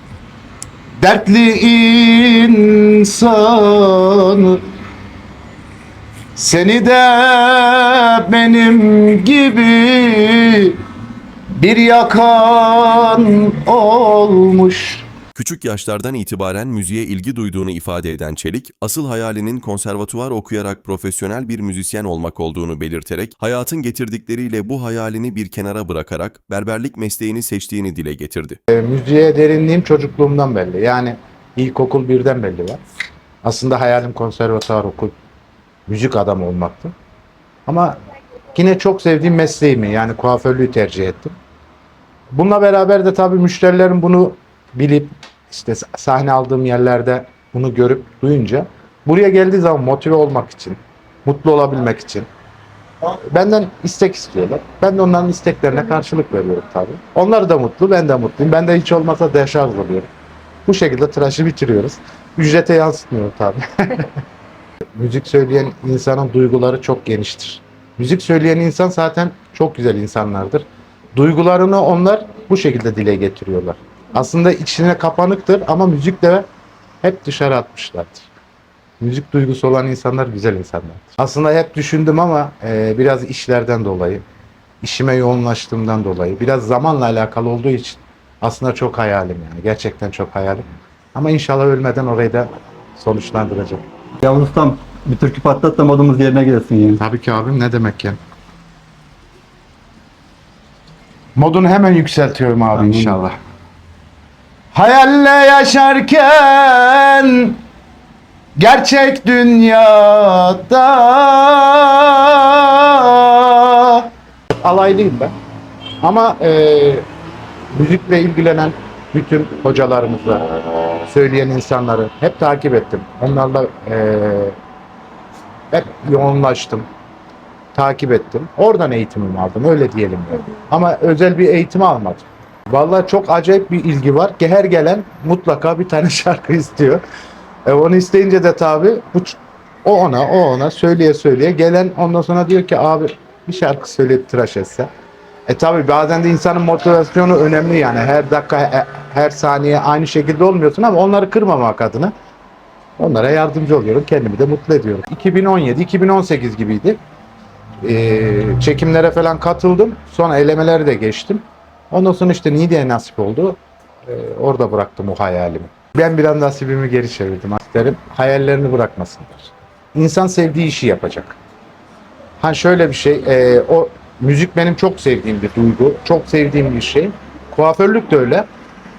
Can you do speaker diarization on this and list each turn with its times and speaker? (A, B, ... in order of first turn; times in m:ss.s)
0:01.0-0:04.6 A
0:06.4-0:10.8 A
0:11.5-0:15.1 A
0:15.4-0:28.6 B
0:28.7-0:32.8 A
0:33.4-0:35.2 A
0:35.9-0:36.9 A
0:37.7-0:38.0 A
0:38.6-0:41.4 A
0:42.3-0:52.3 A
0:53.3-1:00.1 A
1:00.7-1:04.1 A
1:05.0-1:16.5 A
1:17.0-1:18.3 A
1:19.0-1:24.2 A
1:24.8-1:33.8 A
1:34.2-1:37.0 C
1:37.0-1:38.2 A
1:41.4-1:43.4 A
1:42.8-1:43.1 C
1:44.7-1:47.6 A
1:48.6-1:54.1 A
1:54.6-1:55.4 A
1:56.0-1:57.1 A
1:57.7-2:00.5 A
2:01.0-2:04.6 A
2:05.7-2:06.9 A
2:07.7-2:17.0 A
2:17.7-2:24.9 A
2:25.5-2:32.1 A
2:33.0-2:37.0 A
2:37.8-2:51.4 A
2:52.4-2:58.5 A